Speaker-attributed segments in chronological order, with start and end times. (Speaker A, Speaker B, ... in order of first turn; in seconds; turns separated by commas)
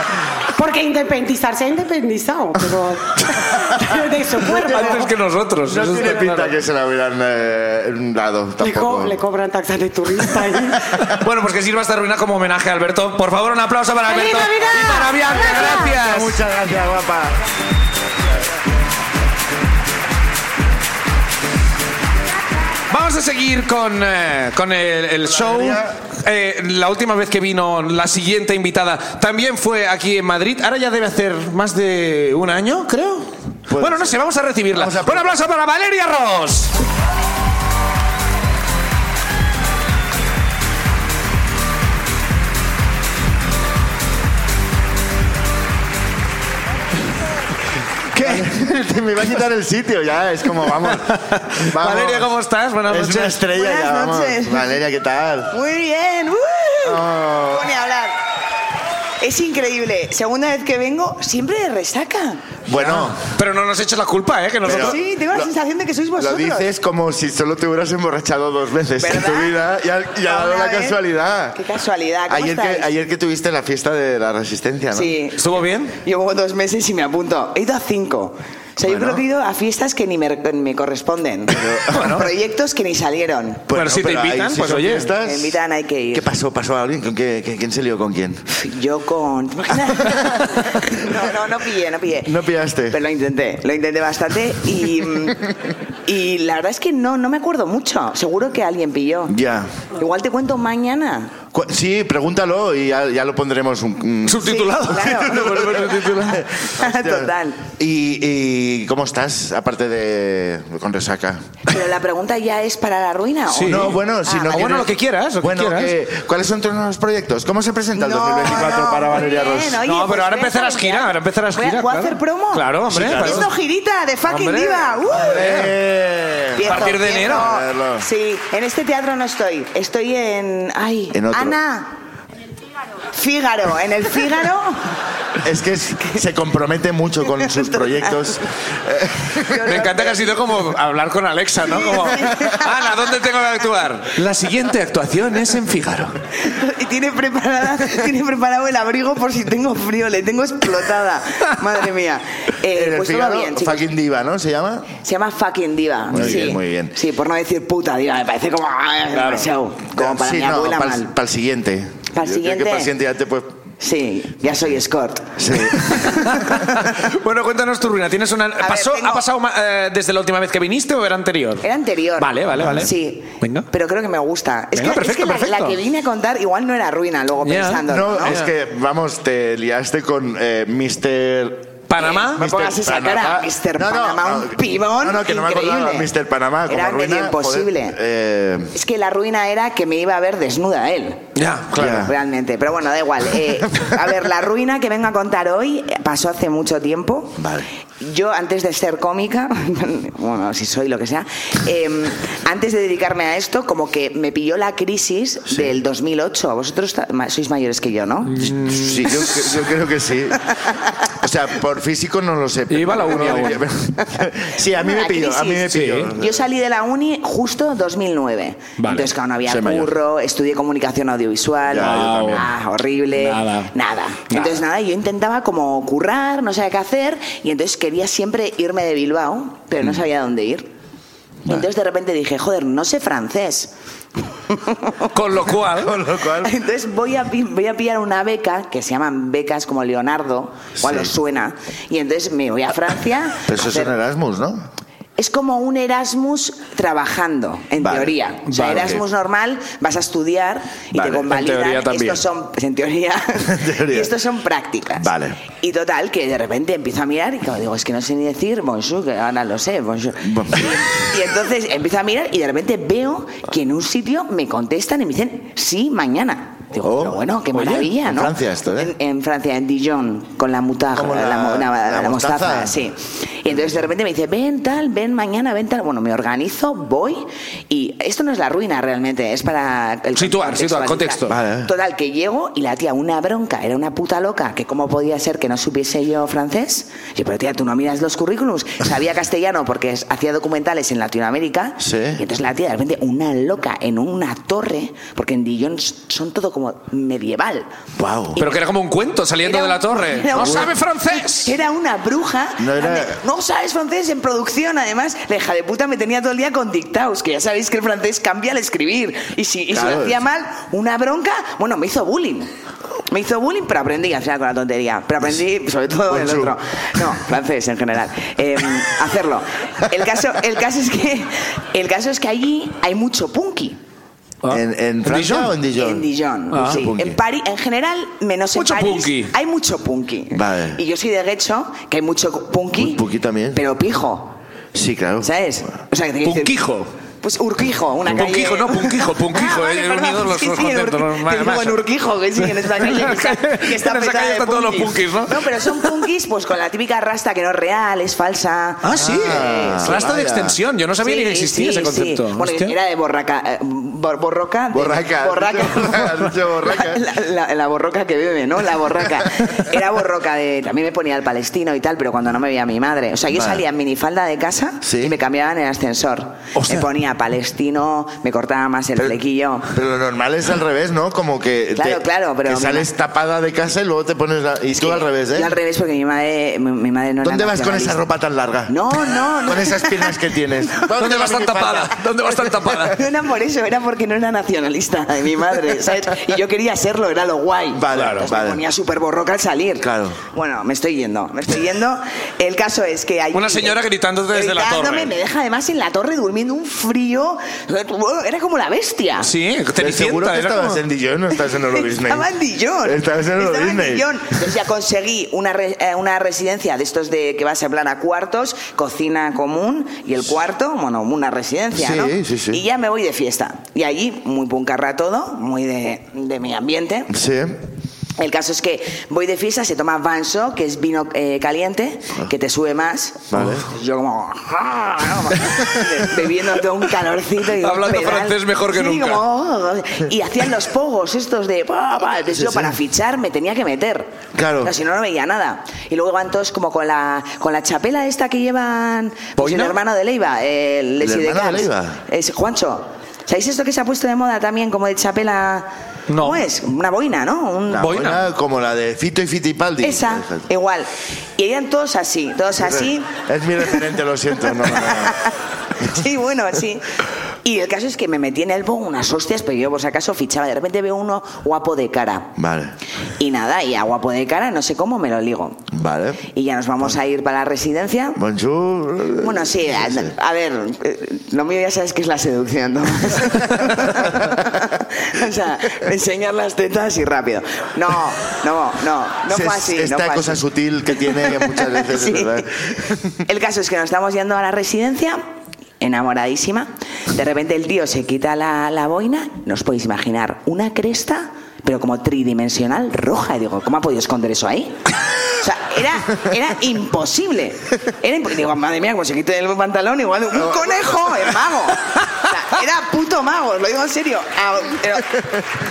Speaker A: 0.5-5.1, Speaker B: 4.5-5.1, Speaker C: 4.6-6.5, Speaker B: 5.6-9.2, Speaker A: 8.6-10.9, Speaker C: 11.1-16.4, Speaker A: 14.1-15.9, Speaker B: 15.3-17.4, Speaker C: 22.9-36.7, Speaker B: 25.2-26.0, Speaker B: 33.7-34.2, Speaker B: 34.7-35.3, Speaker C: 48.1-48.5, Speaker B: 48.2-52.3, Speaker C: 50.9-53.4, Speaker B: 52.9-55.6, Speaker D: 53.5-54.7, Speaker D: 55.5-58.2, Speaker B: 56.8-57.7, Speaker D: 59.2-62.4, Speaker B: 62.7-63.2, Speaker C: 62.8-65.0, Speaker B: 64.6-65.5, Speaker D: 64.7-66.7, Speaker B: 66.2-71.6, Speaker D: 69.0-69.6, Speaker D: 70.2-71.0, Speaker D: 71.5-72.9, Speaker B: 72.3-75.1, Speaker D: 74.9-83.7, Speaker C: 75.4-76.0, Speaker B: 78.8-79.2, Speaker B: 81.5-82.3, Speaker C: 81.9-82.3, Speaker B: 83.7-85.6, Speaker C: 83.7-85.1, Speaker D: 85.2-86.3, Speaker B: 86.1-88.5, Speaker D: 88.5-92.4, Speaker B: 92.2-93.0, Speaker D: 92.9-95.5, Speaker D: 96.1-99.3, Speaker B: 99.3-99.8, Speaker D: 100.0-101.3, Speaker B: 101.5-111.6, Speaker C: 104.2-106.4, Speaker D: 104.4-105.7, Speaker D: 106.7-107.7, Speaker D: 111.7-114.8, Speaker C: 113.5-115.9, Speaker B: 113.6-119.8, Speaker D: 117.9-125.4, Speaker C: 119.8-123.5, Speaker B: 122.9-123.5, Speaker C: 124.3-125.7, Speaker B: 125.1-128.1, Speaker D: 126.6-131.9, Speaker C: 126.6-127.5, Speaker B: 131.1-131.6, Speaker D: 133.1-134.8, Speaker B: 135.4-139.9, Speaker D: 137.3-138.4, Speaker D: 139.3-140.4, Speaker C: 139.7-146.2, Speaker D: 141.7-142.7, Speaker D: 146.4-153.9, Speaker B: 152.7-154.9, Speaker D: 155.0-161.1, Speaker B: 156.1-156.9, Speaker C: 156.2-156.4, Speaker C: 159.1-159.5, Speaker B: 159.9-163.6, Speaker D: 162.2-162.9, Speaker D: 163.8-165.3, Speaker B: 165.4-166.6, Speaker C: 165.8-171.7, Speaker D: 168.6-169.2, Speaker D: 171.6-178.4, Speaker C: 172.2-173.7, Speaker B: 172.6-172.8, Speaker C: 174.8-175.8, Speaker C: 177.4-178.5, Speaker B: 177.8-188.7, Speaker C: 181.9-182.6, Speaker D: 181.9-186.1, Speaker D: 186.7-188.0, Speaker D: 188.7-191.2, Speaker C: 191.3-192.1, Speaker B: 191.7-192.1, Speaker D: 192.0-197.4, Speaker B: 197.4-197.7, Speaker D: 198.0-208.5, Speaker C: 208.3-209.3, Speaker B: 208.4-210.6, Speaker D: 210.6-210.8, Speaker B: 211.1-216.5, Speaker C: 212.7-213.6, Speaker D: 213.1-213.5, Speaker D: 214.1-230.7, Speaker C: 215.7-216.2, Speaker C: 218.8-219.1, Speaker B: 219.4-219.9, Speaker B: 221.7-222.5, Speaker C: 221.8-222.5, Speaker C: 223.2-223.7, Speaker D: 231.5-233.7, Speaker D: 234.5-235.1, Speaker C: 235.1-236.0, Speaker B: 235.6-236.5, Speaker D: 236.3-243.9, Speaker B: 240.8-241.1, Speaker B: 243.5-244.7, Speaker D: 245.2-297.7, Speaker B: 247.8-249.0, Speaker C: 248.5-248.9, Speaker B: 250.9-251.3, Speaker C: 251.2-252.2, Speaker B: 253.5-254.1, Speaker B: 255.0-255.4, Speaker B: 260.2-261.0, Speaker B: 266.8-267.2, Speaker C: 267.5-267.9, Speaker B: 268.0-268.9, Speaker B: 270.9-272.8, Speaker C: 280.2-281.3, Speaker B: 281.3-281.7, Speaker B: 291.8-292.2, Speaker B: 298.0-298.4, Speaker C: 298.4-301.5, Speaker D: 299.4-312.5, Speaker B: 300.3-300.7, Speaker B: 302.6-303.2, Speaker B: 309.7-310.2, Speaker D: 313.1-323.8, Speaker B: 316.1-317.0, Speaker C: 324.4-325.6, Speaker B: 324.5-327.2, Speaker D: 325.7-333.0, Speaker C: 326.5-326.8, Speaker C: 328.6-329.3, Speaker B: 330.3-330.8, Speaker B: 332.8-333.6, Speaker D: 333.5-334.3, Speaker B: 334.7-335.3, Speaker D: 335.2-336.6, Speaker C: 336.2-336.9, Speaker D: 337.2-350.1, Speaker C: 338.1-341.8, Speaker C: 342.6-345.4, Speaker C: 348.8-352.7, Speaker B: 348.9-350.6, Speaker D: 351.0-369.7, Speaker B: 354.7-357.0, Speaker B: 363.3-363.6, Speaker B: 364.8-365.1, Speaker C: 366.6-366.9, Speaker B: 369.7-375.5, Speaker D: 371.8-372.9, Speaker D: 374.8-378.0, Speaker B: 377.2-378.8, Speaker D: 378.7-380.9, Speaker B: 379.4-382.9, Speaker C: 381.0-383.0, Speaker D: 382.9-393.8, Speaker B: 387.7-388.6, Speaker C: 387.9-388.3, Speaker B: 389.8-390.2, Speaker C: 393.3-395.1, Speaker D: 394.3-399.3, Speaker C: 399.2-400.8, Speaker B: 399.8-402.3, Speaker D: 401.6-417.1, Speaker B: 402.8-404.2, Speaker B: 411.8-412.6, Speaker B: 417.1-417.6, Speaker D: 418.2-447.9, Speaker B: 423.3-423.7, Speaker C: 427.6-429.2, Speaker B: 432.3-432.7, Speaker B: 434.3-434.7, Speaker C: 439.4-439.8, Speaker B: 441.0-442.0, Speaker C: 446.1-446.4, Speaker B: 447.7-450.5, Speaker C: 447.8-448.2, Speaker D: 449.8-453.1, Speaker B: 452.6-455.3, Speaker D: 454.5-456.8, Speaker D: 457.4-462.3, Speaker B: 462.4-462.8, Speaker D: 463.2-465.6, Speaker B: 465.7-466.2, Speaker D: 466.2-468.2, Speaker B: 468.2-470.1, Speaker D: 469.2-480.4, Speaker B: 473.8-474.3, Speaker B: 479.3-483.0, Speaker D: 480.9-482.4, Speaker D: 483.3-485.2, Speaker D: 485.8-494.8, Speaker D: 495.4-505.2, Speaker B: 500.4-501.3